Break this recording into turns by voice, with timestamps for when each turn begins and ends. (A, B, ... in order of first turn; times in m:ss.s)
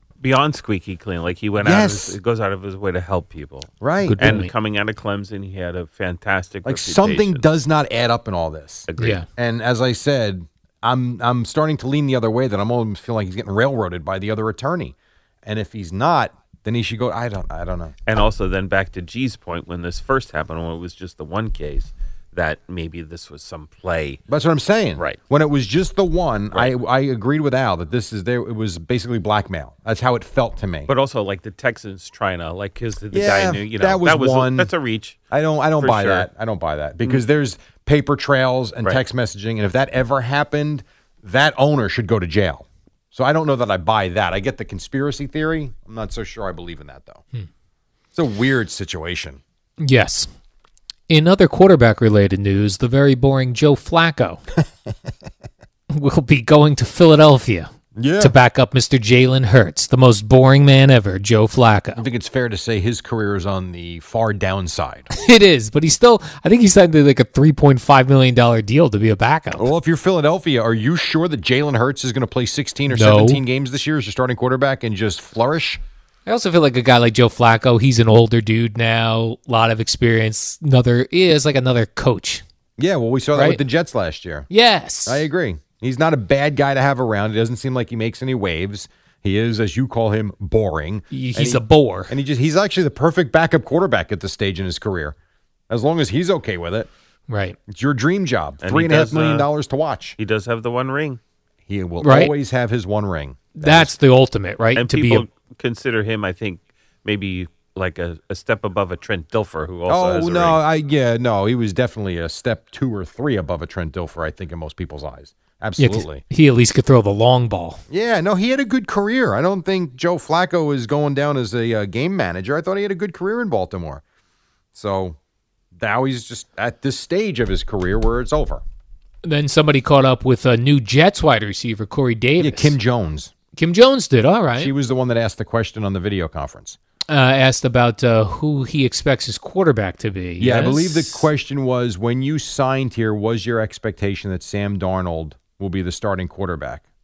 0:00.2-0:07.4 A
0:01.6-0:02.2 B
0:03.8-0:04.4 B
0:04.0-0:04.5 C
0:06.6-0:18.0 B
0:08.9-0:09.2 A
0:09.0-0:09.2 C
0:18.0-0:24.2 A
0:24.3-0:30.9 B
0:30.9-0:35.2 A
0:33.1-0:34.7 B
0:35.3-0:47.2 B
0:35.8-0:36.3 A
0:48.1-0:49.4 B
0:49.8-0:50.3 C
0:51.1-0:54.4 C
0:55.9-1:02.0 C
0:58.0-0:58.3 B
1:02.0-1:05.1 B
1:05.1-1:09.6 C
1:09.6-1:15.8 B
1:12.9-1:13.4 C
1:16.2-1:22.4 C
1:22.8-1:24.5 B
1:23.3-1:23.6 C
1:24.5-1:25.2 C
1:25.0-1:35.1 B
1:31.1-1:32.1 C
1:35.7-1:36.9 B
1:37.3-1:37.6 C
1:37.7-1:40.2 B
1:38.6-1:39.5 A
1:40.2-1:41.2 A
1:41.7-1:43.9 B
1:42.0-1:42.3 C
1:43.6-1:45.2 C
1:44.8-1:50.6 A
1:49.9-1:56.2 B
1:55.8-1:57.8 C
1:57.9-2:04.0 B
2:04.7-2:05.2 B
2:05.8-2:08.6 B
2:09.2-2:12.8 C
2:12.4-2:13.3 B
2:13.6-2:14.7 C
2:14.6-2:16.8 B
2:17.1-2:21.2 C
2:20.4-2:26.8 B